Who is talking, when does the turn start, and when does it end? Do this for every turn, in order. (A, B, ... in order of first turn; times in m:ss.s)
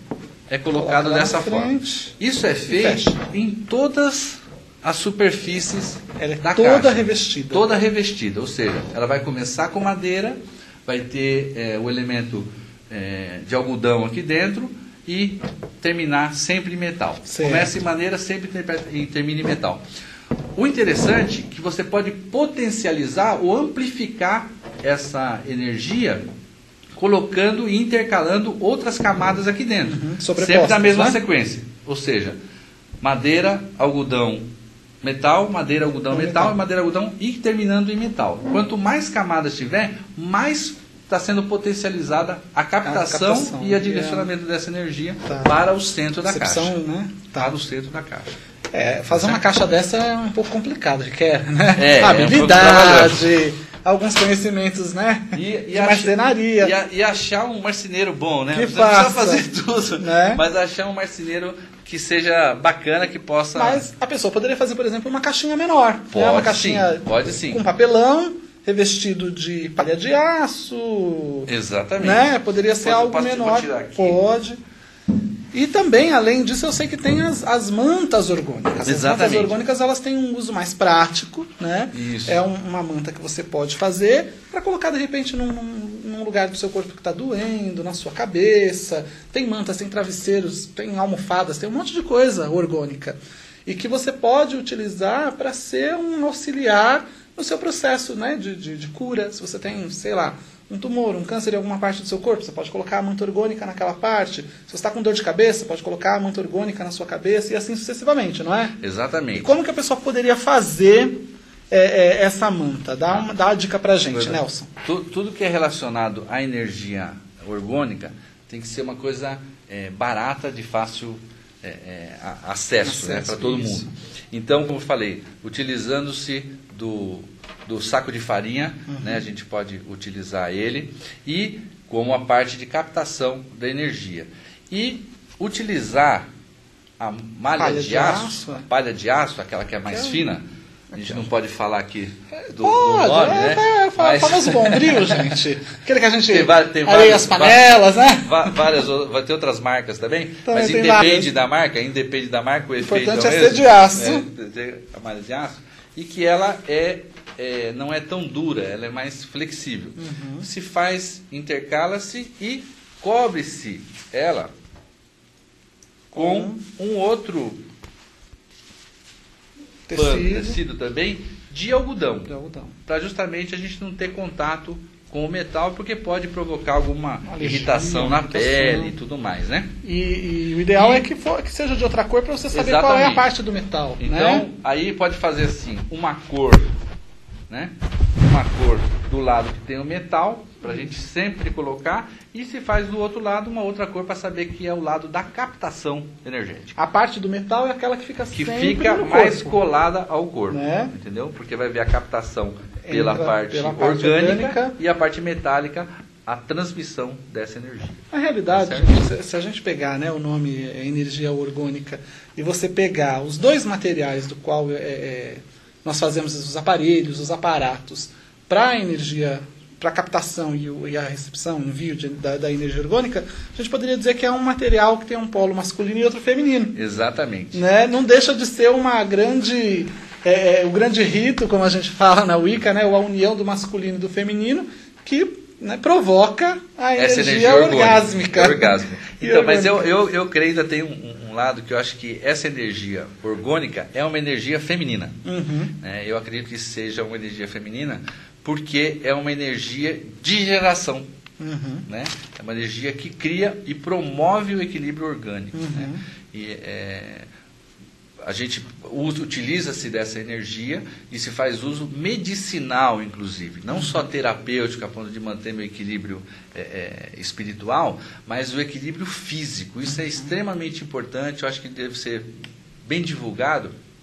0:00.5-0:19.8 A
0:00.7-0:02.1 B
0:02.7-0:03.2 B
0:06.2-0:07.7 B
0:17.3-0:17.7 B
0:20.6-0:26.2 A
0:27.0-0:32.4 A
0:29.8-0:31.2 B
0:33.0-0:34.5 A
0:35.0-0:46.8 A
0:36.1-0:36.6 B
0:42.8-0:44.3 B
0:45.3-0:45.5 B
0:46.3-0:47.6 B
0:47.4-0:48.3 A
0:48.7-0:56.7 B
0:49.1-0:49.4 A
0:51.8-0:53.3 A
0:55.3-1:03.8 A
0:58.5-0:59.4 B
1:00.0-1:00.4 B
1:03.6-1:11.5 B
1:06.1-1:07.6 A
1:11.5-1:12.3 A
1:12.0-1:14.6 B
1:12.8-1:14.2 A
1:15.5-1:48.8 B
1:18.8-1:19.6 A
1:21.9-1:22.4 A
1:48.8-1:49.6 A
1:49.4-1:54.7 B
1:54.1-2:16.3 A
2:02.8-2:03.9 B
2:08.9-2:09.2 B
2:17.0-2:20.4 A
2:17.6-2:18.7 B
2:19.9-2:20.2 B
2:20.9-2:21.3 B
2:21.0-2:25.3 A
2:22.5-2:28.6 B
2:26.3-2:44.5 A
2:30.5-2:31.3 B
2:32.8-2:34.3 B
2:40.0-2:40.5 B
2:46.1-2:46.6 B
2:46.1-2:47.6 A
2:49.9-2:50.6 B
2:49.9-2:52.3 A
2:52.3-2:52.8 B
2:52.9-2:59.7 A
2:57.2-2:58.9 B
2:59.8-3:04.4 B
3:00.8-3:01.0 A
3:02.5-3:03.2 A
3:04.0-3:06.7 A
3:07.5-3:16.8 A
3:10.6-3:10.9 B
3:16.8-3:19.6 B
3:18.3-3:29.1 A
3:20.5-3:20.9 B
3:22.9-3:24.8 B
3:28.1-3:46.8 B
3:46.8-3:47.6 A
3:47.5-3:59.9 B
3:57.0-4:05.2 A
4:05.2-4:05.7 B
4:05.8-4:11.1 A
4:11.4-4:11.9 B
4:11.9-4:17.3 A
4:15.5-4:16.0 B
4:18.2-4:32.3 A
4:23.7-4:24.0 B
4:29.9-4:30.3 B
4:32.9-4:33.7 A